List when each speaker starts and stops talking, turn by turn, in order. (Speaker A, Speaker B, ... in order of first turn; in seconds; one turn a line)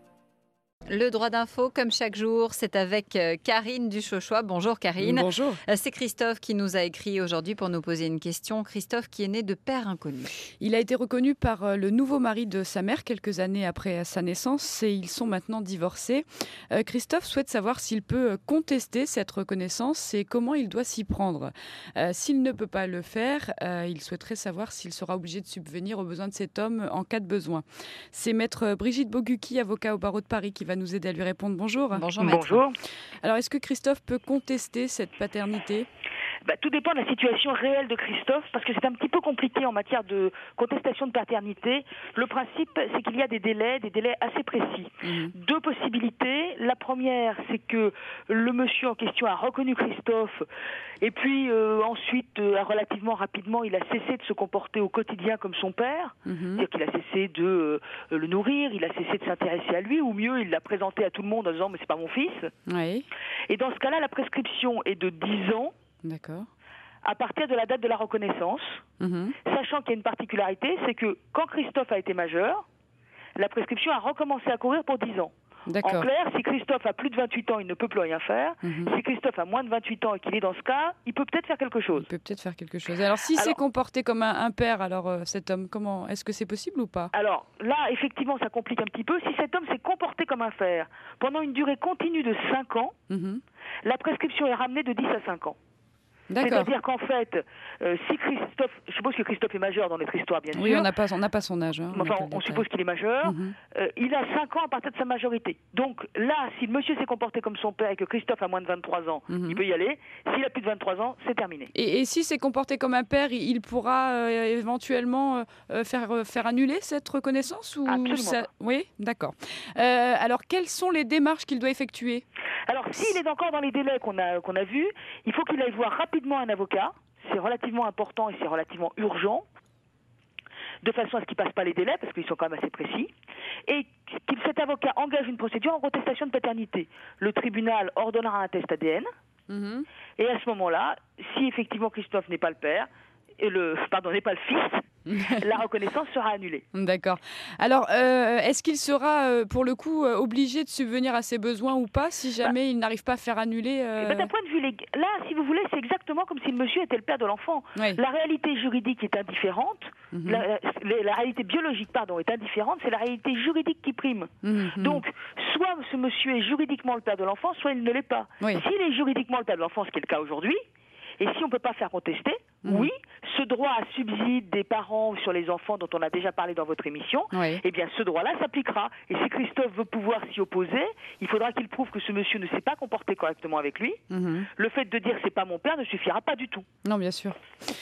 Speaker A: 0.9-10.4
Speaker B: 5.0-5.6
Speaker B: 10.6-32.1
Speaker A: 31.9-32.6
Speaker C: 32.2-32.8
Speaker B: 33.2-35.9
Speaker C: 36.4-50.5
Speaker B: 45.0-45.3
Speaker C: 51.0-62.5
Speaker B: 56.3-56.6
Speaker B: 62.7-63.1
Speaker C: 63.5-65.7
Speaker B: 66.0-66.5
Speaker C: 67.0-68.8
Speaker B: 69.0-69.4
Speaker C: 69.5-72.6
Speaker C: 73.4-82.1
Speaker B: 75.7-76.1
Speaker B: 78.6-78.9
Speaker B: 82.0-87.1
Speaker C: 83.3-83.6
Speaker C: 87.1-93.0
Speaker B: 93.1-93.4
Speaker C: 93.8-95.6
Speaker B: 96.3-96.8
Speaker C: 96.4-100.9
Speaker B: 100.5-102.7
Speaker C: 101.9-111.7
Speaker B: 103.2-103.6
Speaker B: 109.3-109.6
Speaker B: 111.7-122.2
Speaker C: 117.9-118.5
Speaker C: 122.7-129.4
Speaker C: 130.8-133.1
Speaker C: 133.7-139.1
Speaker B: 139.5-139.9
Speaker C: 140.2-142.9
Speaker C: 143.4-146.6
Speaker B: 145.1-145.5
Speaker B: 146.7-154.3
Speaker C: 154.0-170.6
Speaker B: 160.1-160.4
Speaker B: 164.4-165.0
Speaker C: 171.2-184.0
Speaker B: 172.6-172.9
Speaker B: 177.3-177.6
Speaker B: 184.1-184.5
Speaker C: 184.6-186.7
Speaker B: 186.8-187.4